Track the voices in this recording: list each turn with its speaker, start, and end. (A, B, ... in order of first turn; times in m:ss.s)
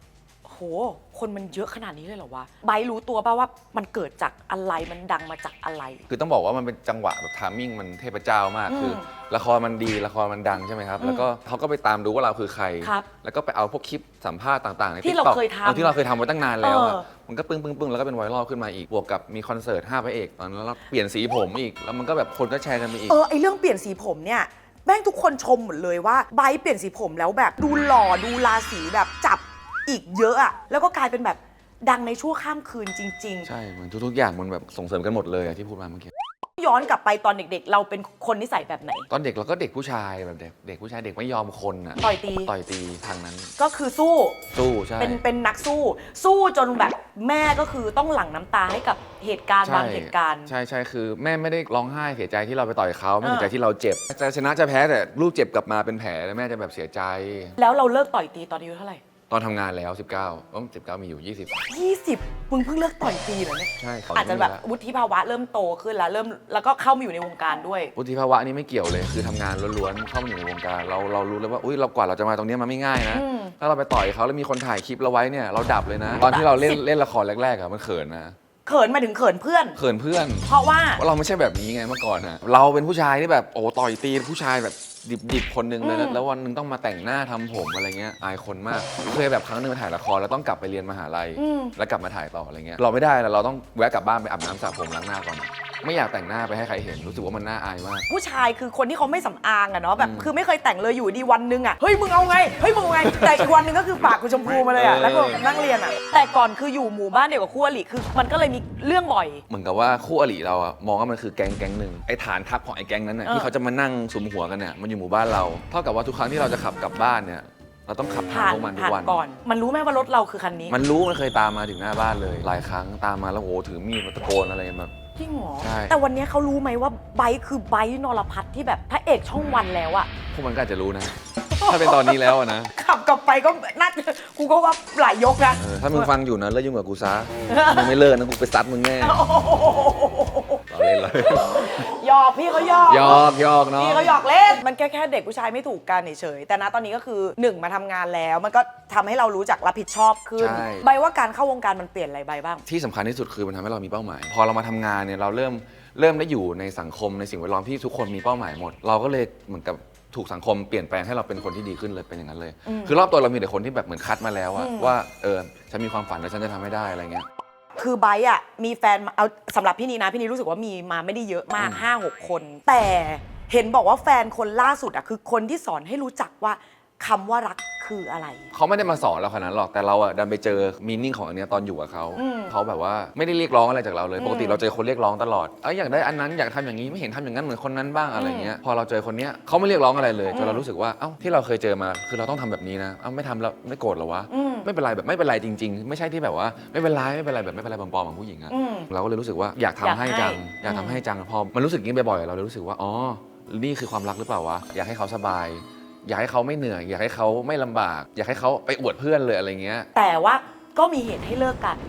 0:00.4-0:06.0 A
0:06.1-0:23.2 B
0:08.7-0:09.1 A
0:11.0-0:11.3 A
0:12.8-0:13.1 A
0:15.0-0:16.0 A
0:16.6-0:17.1 A
0:23.1-0:33.5 A
0:33.4-0:36.1 B
0:36.6-0:39.1 A
0:39.1-0:43.5 B
0:42.0-0:42.5 A
0:43.6-0:44.4 A
0:44.5-0:45.2 B
0:45.0-0:50.5 A
0:49.6-0:57.6 B
0:53.2-0:53.5 A
0:57.6-0:59.0 A
0:59.3-1:01.6 B
1:01.7-1:07.9 A
1:03.8-1:04.6 B
1:08.0-1:18.4 B
1:13.1-1:13.6 A
1:16.2-1:16.8 A
1:18.7-1:19.8 A
1:19.8-1:38.1 B
1:20.5-1:21.0 A
1:25.8-1:26.2 A
1:31.4-1:31.8 A
1:38.1-1:49.4 A
1:40.0-1:40.3 B
1:43.0-1:43.5 B
1:44.7-1:45.5 B
1:49.5-1:59.2 B
1:53.3-1:53.5 A
1:58.3-2:00.8 A
2:00.7-2:04.9 B
2:05.2-2:10.1 A
2:05.6-2:06.0 B
2:10.3-2:12.7 B
2:11.5-2:16.1 A
2:15.6-2:19.2 B
2:17.5-2:18.0 A
2:19.0-2:32.6 A
2:20.7-2:21.9 B
2:22.9-2:24.2 B
2:30.4-2:30.9 B
2:32.7-2:47.3 B
2:42.6-2:43.0 A
2:44.5-2:45.0 A
2:47.8-2:58.5 A
2:51.6-2:51.8 B
2:58.5-3:29.9 B
3:02.2-3:02.5 A
3:04.2-3:04.6 A
3:08.2-3:08.5 A
3:10.3-3:10.7 A
3:14.3-3:14.7 A
3:18.5-3:18.9 A
3:19.8-3:21.0 A
3:30.0-3:31.8 A